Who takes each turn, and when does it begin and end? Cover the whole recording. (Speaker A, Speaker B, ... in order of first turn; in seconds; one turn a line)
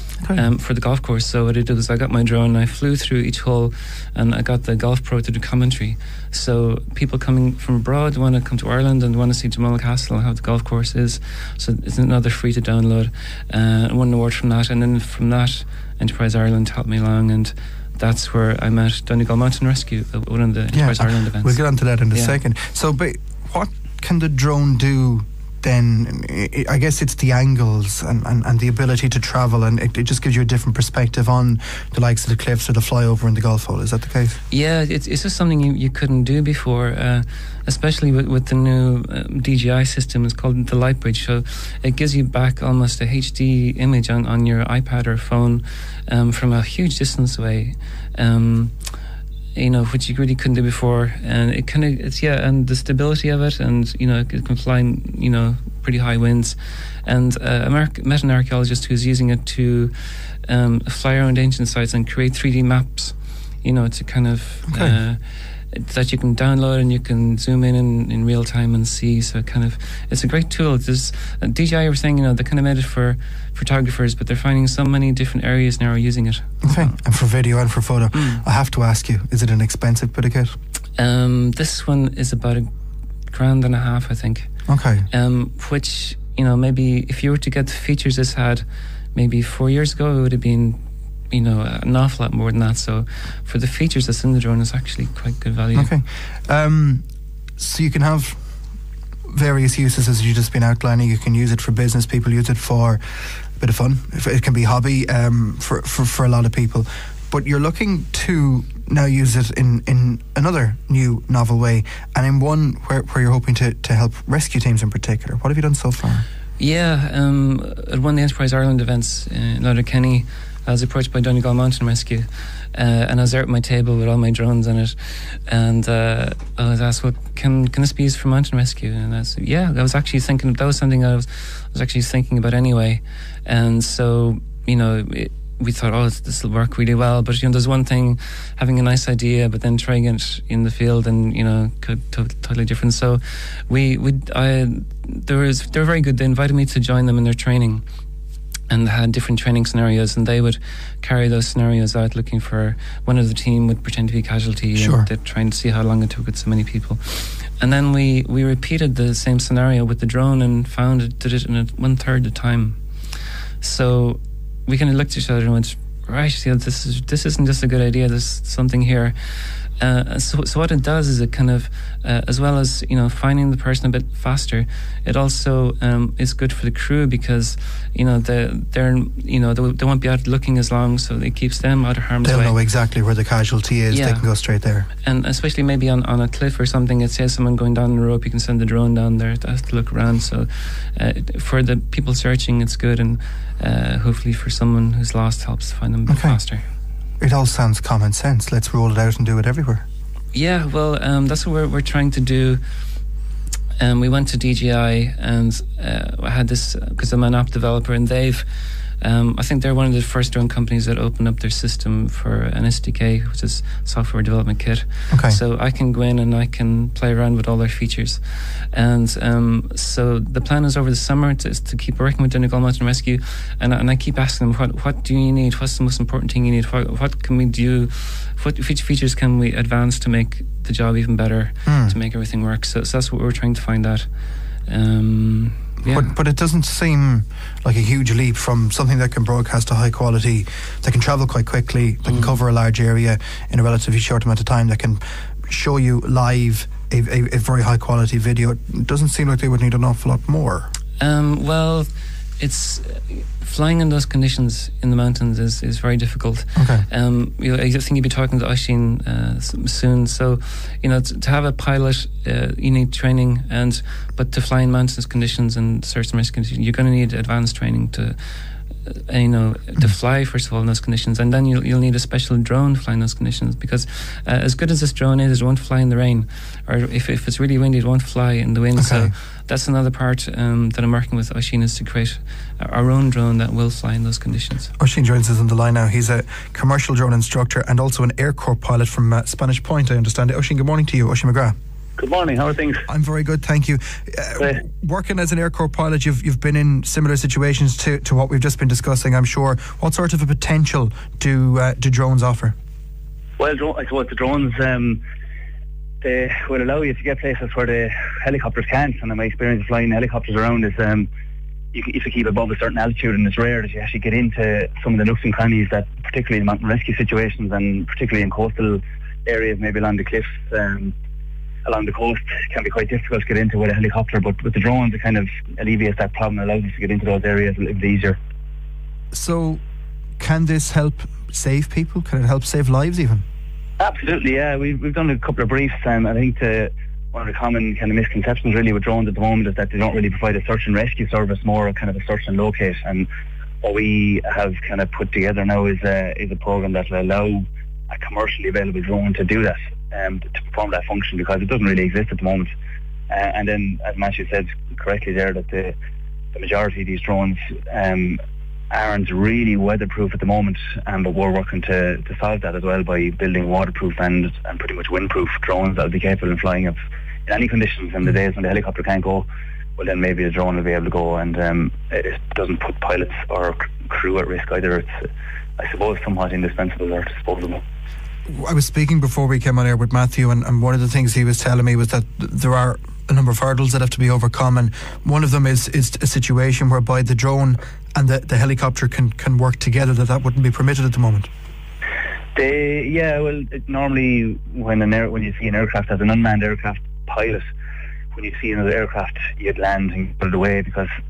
Speaker A: 0.3-22.4
Speaker B: 20.7-34.4
Speaker A: 34.5-48.8
Speaker A: 49.5-77.0
Speaker B: 64.7-65.0
Speaker B: 76.6-80.5
Speaker A: 78.1-78.4
Speaker A: 81.0-82.7
Speaker A: 83.3-84.5
Speaker B: 84.7-85.1
Speaker A: 85.1-90.8
Speaker A: 91.3-95.9
Speaker B: 95.7-97.0
Speaker B: 97.6-98.6
Speaker B: 99.3-116.2
Speaker A: 116.6-147.8
Speaker A: 148.7-182.6
Speaker B: 154.8-155.1
Speaker B: 182.2-184.9
Speaker A: 183.9-184.2
Speaker A: 185.0-196.6
Speaker B: 196.1-196.4
Speaker B: 197.2-199.8
Speaker A: 200.3-202.6
Speaker A: 203.8-208.4
Speaker A: 209.0-234.1
Speaker B: 215.1-215.4
Speaker B: 231.7-231.9
Speaker A: 234.7-236.1
Speaker B: 235.8-250.7
Speaker A: 242.1-242.3
Speaker A: 251.0-251.9
Speaker A: 252.4-284.7
Speaker B: 256.6-256.9
Speaker B: 278.8-279.1
Speaker B: 284.8-291.5
Speaker C: 292.0-292.8
Speaker B: 292.9-302.5
Speaker C: 303.4-305.0
Speaker C: 306.0-311.1
Speaker C: 311.7-320.9
Speaker C: 321.6-328.2
Speaker B: 329.1-329.6
Speaker B: 330.2-333.2
Speaker C: 333.8-343.1
Speaker C: 343.6-352.5
Speaker C: 353.1-355.7
Speaker C: 356.3-358.2
Speaker C: 358.7-374.9
Speaker C: 375.6-377.6
Speaker B: 378.3-391.3
Speaker C: 392.3-397.4
Speaker C: 398.1-400.9